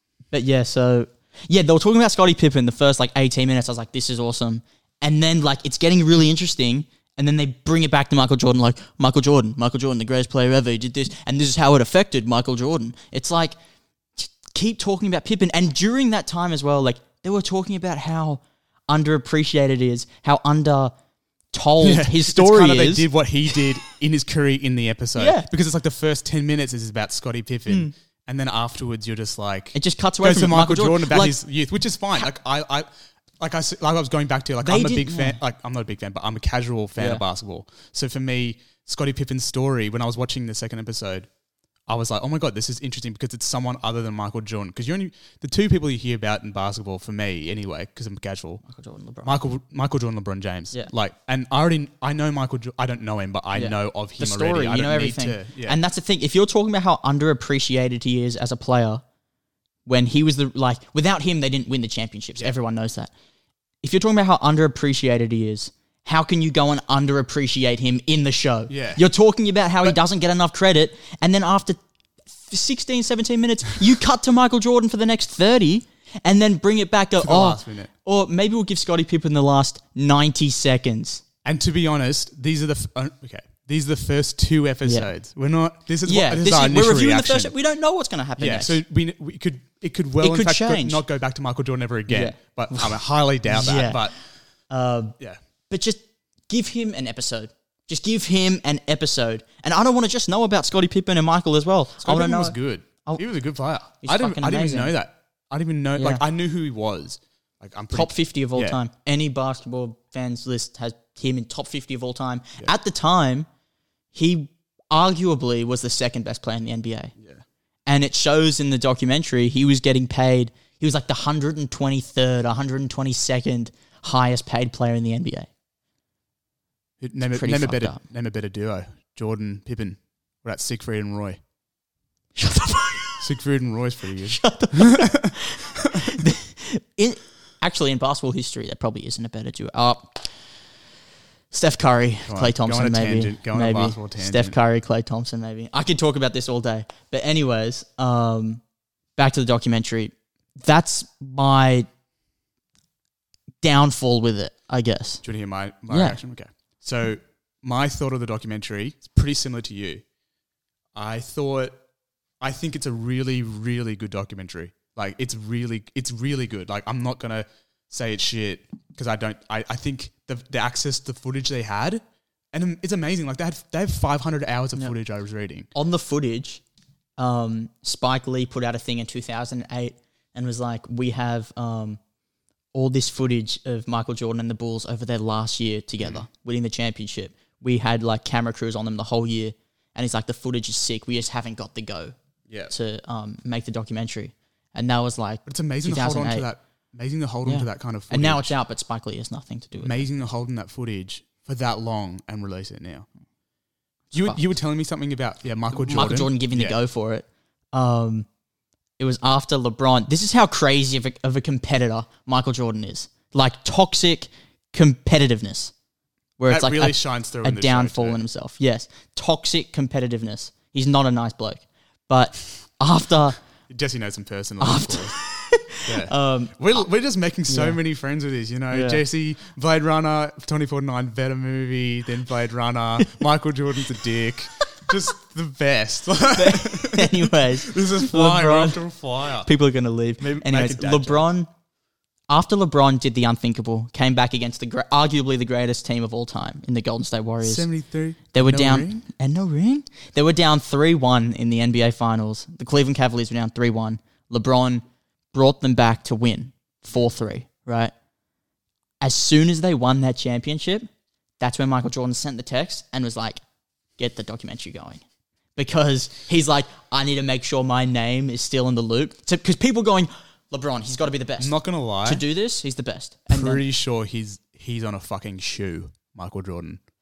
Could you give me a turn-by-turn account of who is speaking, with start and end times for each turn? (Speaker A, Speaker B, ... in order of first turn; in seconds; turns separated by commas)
Speaker A: 0.3-13.6, Speaker A: 14.2-20.9, Speaker A: 21.5-23.6, Speaker B: 21.8-32.9, Speaker A: 25.2-25.5, Speaker A: 27.7-27.9, Speaker A: 29.8-31.4, Speaker B: 33.4-41.3, Speaker A: 34.6-35.4, Speaker A: 37.0-37.2, Speaker B: 41.9-48.6, Speaker A: 48.7-49.3, Speaker B: 49.2-55.8, Speaker A: 53.5-59.0, Speaker A: 59.9-63.1, Speaker A: 63.8-71.8, Speaker B: 68.7-69.0, Speaker A: 72.5-81.2, Speaker B: 77.2-77.9, Speaker B: 81.5-87.5, Speaker A: 86.0-88.8, Speaker B: 88.4-94.2, Speaker A: 90.2-91.0, Speaker A: 92.1-94.1, Speaker A: 94.7-95.2, Speaker A: 95.7-103.2, Speaker B: 102.0-108.8, Speaker A: 104.0-105.0, Speaker A: 106.0-106.2, Speaker A: 107.9-113.5, Speaker A: 114.1-117.1, Speaker B: 117.2-117.4, Speaker A: 117.9-125.5, Speaker B: 127.0-131.4, Speaker A: 127.2-128.0, Speaker A: 132.4-133.3, Speaker B: 133.2-136.2, Speaker A: 134.3-140.3, Speaker A: 141.5-148.6, Speaker B: 142.3-144.6, Speaker A: 149.2-151.9, Speaker A: 153.6-155.2, Speaker B: 155.2-160.0, Speaker A: 155.9-156.2, Speaker B: 160.9-161.8, Speaker B: 162.4-172.0, Speaker B: 172.5-175.7, Speaker A: 175.8-176.6, Speaker A: 177.2-182.0, Speaker A: 182.7-192.2, Speaker B: 186.0-186.2, Speaker A: 192.7-196.5, Speaker B: 195.5-198.5, Speaker A: 197.4-200.1, Speaker B: 199.8-203.1, Speaker A: 204.1-204.4, Speaker B: 204.1-206.8, Speaker A: 205.7-208.3, Speaker A: 209.0-215.7, Speaker A: 216.4-223.4, Speaker B: 216.5-218.2, Speaker B: 223.7-225.2, Speaker A: 224.6-226.6, Speaker B: 225.8-239.5, Speaker A: 227.5-227.8, Speaker A: 228.7-229.0, Speaker A: 236.3-238.8, Speaker A: 239.4-241.5, Speaker B: 240.2-241.3, Speaker A: 242.3-247.7, Speaker B: 247.4-249.0, Speaker A: 248.3-257.9, Speaker A: 259.0-260.9, Speaker A: 261.4-263.4, Speaker A: 264.0-265.0, Speaker A: 265.6-273.6, Speaker B: 271.4-272.2, Speaker B: 273.3-276.8